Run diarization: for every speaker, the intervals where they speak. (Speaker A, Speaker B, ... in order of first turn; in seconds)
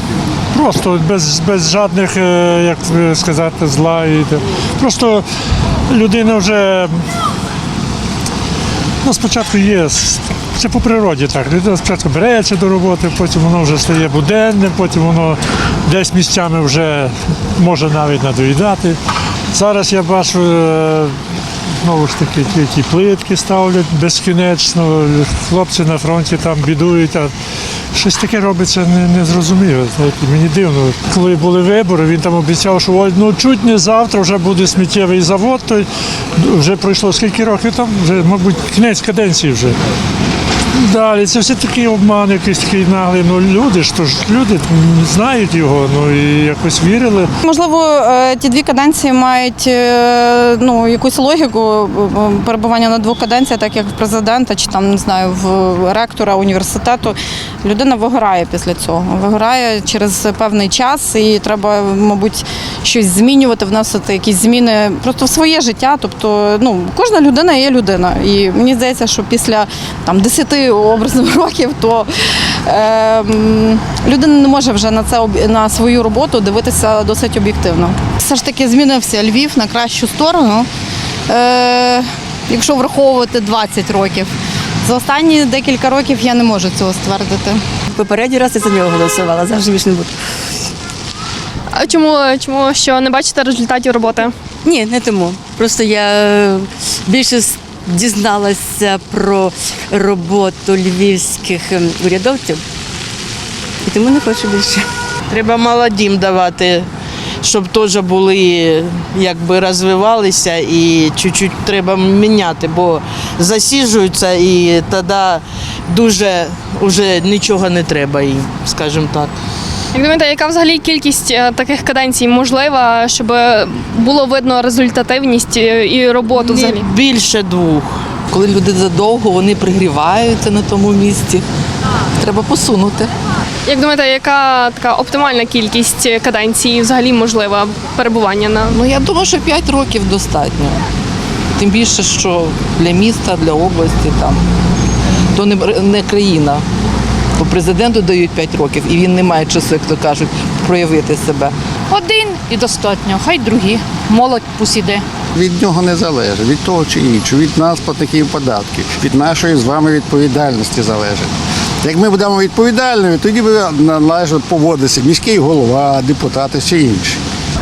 Speaker A: 0.5-5.2, 5.9-7.0, 9.0-19.0, 19.5-21.1, 21.8-27.3, 27.9-39.8, 40.7-47.3
Speaker B: 47.4-72.1, 72.7-80.7, 81.3-84.3, 84.8-87.6
Speaker C: 87.9-90.1, 94.6-102.6, 103.8-104.9
Speaker D: 91.7-94.3, 119.9-126.9, 133.7-138.8
Speaker E: 105.3-106.9, 107.4-119.3, 126.3-128.0
Speaker F: 128.3-131.4, 132.2-133.1, 138.7-140.8, 141.6-144.4, 145.3-146.6, 147.4-151.5
Speaker G: 151.9-155.0
Speaker H: 155.3-161.3, 161.8-167.2